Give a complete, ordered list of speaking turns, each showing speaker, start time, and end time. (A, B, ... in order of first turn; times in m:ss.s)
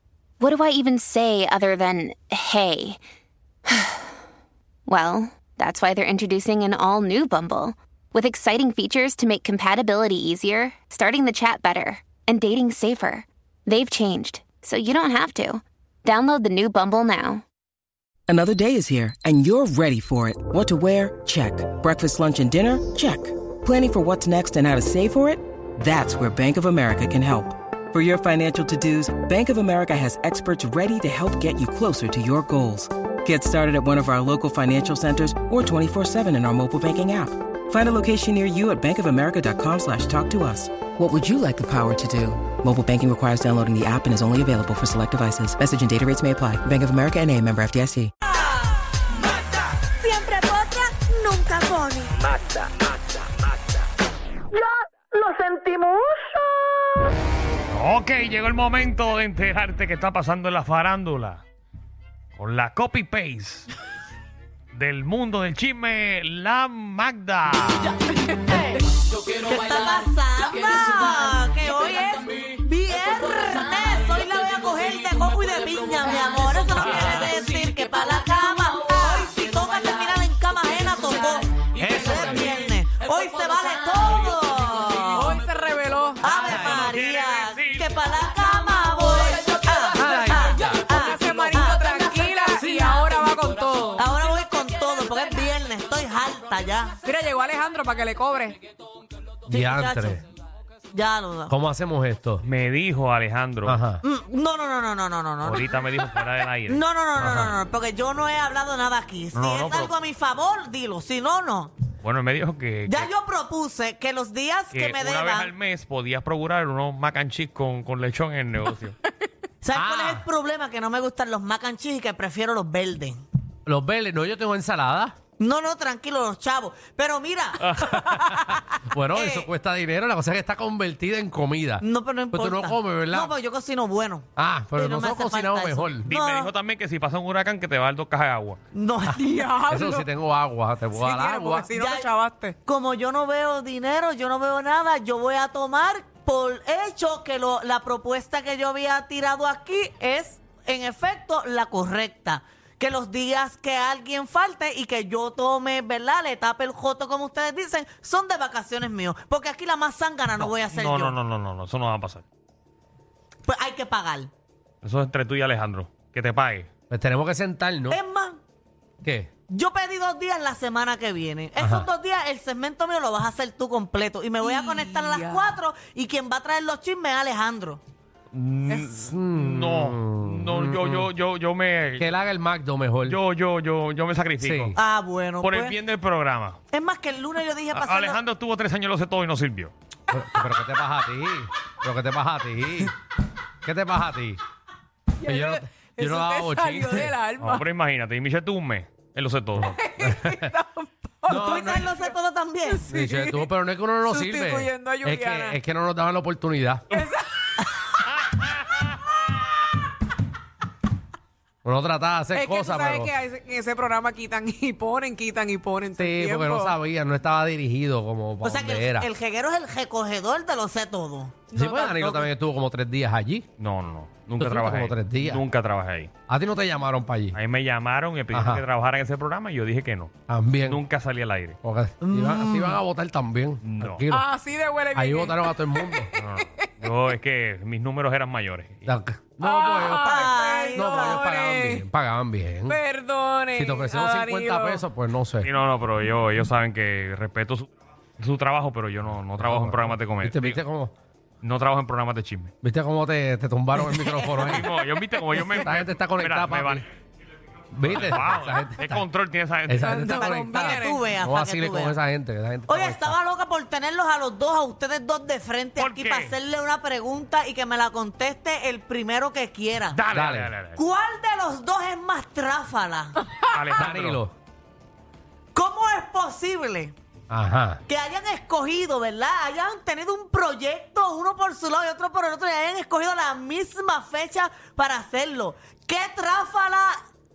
0:00.4-0:03.0 A
0:03.7-0:04.1 A
0:04.9-0:17.4 A
0:18.3-0:48.1 B
0:48.3-0:52.1 C
0:54.5-0:56.3 C
0:57.7-1:01.4 D
1:02.4-1:03.7 D
1:04.7-1:07.9 D
1:09.4-1:25.4 C
1:21.8-1:22.6 E
1:25.1-1:26.2 F
1:26.2-1:31.8 C
1:26.2-1:26.9 E
1:26.5-1:28.1 D
1:29.5-1:34.0 F
1:29.9-1:31.4 E
1:34.0-1:37.0 C
1:37.0-1:38.6 F
1:39.5-1:40.2 C
1:39.5-1:40.2 E
1:40.9-1:41.5 C
1:41.5-1:42.4 E
1:42.4-1:43.8 D
1:43.6-1:44.0 E
1:44.0-1:45.8 C
1:45.4-1:47.5 D
1:46.7-1:51.7 C
1:49.3-1:49.9 D
1:52.0-1:53.1 D
1:52.9-1:55.5 C
1:54.7-1:59.0 D
1:59.6-2:03.2 C
1:59.7-2:00.2 E
2:03.6-2:05.2 E
2:05.4-2:08.5 C
2:07.6-2:08.1 D
2:07.8-2:13.3 E
2:09.1-2:09.5 C
2:11.8-2:16.5 C
2:14.4-2:16.1 E
2:16.0-2:18.6 D
2:18.7-2:19.4 C
2:19.1-2:20.1 F
2:19.7-2:21.7 E
2:20.9-2:22.5 F
2:21.7-2:22.1 C
2:22.6-2:41.2 C
2:40.4-2:42.2 D
2:43.4-2:44.3 C
2:44.8-2:46.7 D
2:46.9-2:48.0 E
2:47.9-2:48.4 C
2:49.0-2:49.3 E
2:49.5-2:57.8 C
2:51.6-2:51.9 E
2:54.4-2:55.5 F
2:58.3-3:02.1 D
2:58.9-3:01.1 E
3:02.0-3:03.2 E
3:03.0-3:04.8 D
3:04.4-3:04.8 E
3:04.7-3:05.8 C
3:05.4-3:06.6 D
3:06.7-3:08.2 C
3:07.7-3:09.7 D
3:10.1-3:12.9 E
3:13.6-3:14.4 E
3:15.2-3:17.6 F
3:15.2-3:17.2 E
3:17.4-3:19.8 D
3:19.6-3:23.5 F
3:20.0-3:20.5 E
3:21.3-3:21.9 E
3:21.3-3:22.8 C
3:22.9-3:26.8 E
3:24.0-3:25.6 F
3:26.9-3:27.6 F
3:28.1-3:29.1 D
3:31.6-3:33.1 E
3:32.3-3:36.8 F
3:36.0-3:39.1 E
3:38.4-3:41.4 C
3:41.5-3:42.3 F
3:41.5-3:43.4 E
3:43.6-3:46.1 D
3:44.4-3:45.4 E
3:46.3-3:47.4 E
3:47.3-3:50.1 D
3:48.3-3:48.6 E
3:50.3-3:50.8 E
3:50.7-3:51.6 D
3:51.6-3:54.2 E
3:52.0-3:52.8 C
3:53.6-3:54.0 D
3:54.1-3:56.7 F
3:54.9-3:56.1 E
3:56.1-3:58.8 D
3:58.8-4:02.8 E
3:59.4-4:01.8 F
3:59.8-4:01.2 C
4:02.7-4:04.8 F
4:03.5-4:05.5 E
4:05.4-4:10.6 D
4:09.4-4:10.9 E
4:11.4-4:12.5 D
4:12.6-4:14.7 E
4:13.9-4:14.6 C
4:14.3-4:16.9 D
4:15.4-4:16.8 E
4:17.7-4:19.0 E
4:17.8-4:20.1 D
4:19.7-4:23.2 E
4:19.8-4:21.1 F
4:20.1-4:22.0 C
4:22.7-4:30.0 C
4:25.8-4:26.3 D
4:29.9-4:30.8 D
4:30.1-4:30.5 E
4:30.8-4:33.2 C
4:33.5-4:34.2 D
4:33.7-4:34.3 E
4:35.5-4:36.9 C
4:37.3-4:37.8 E
4:37.9-4:47.0 C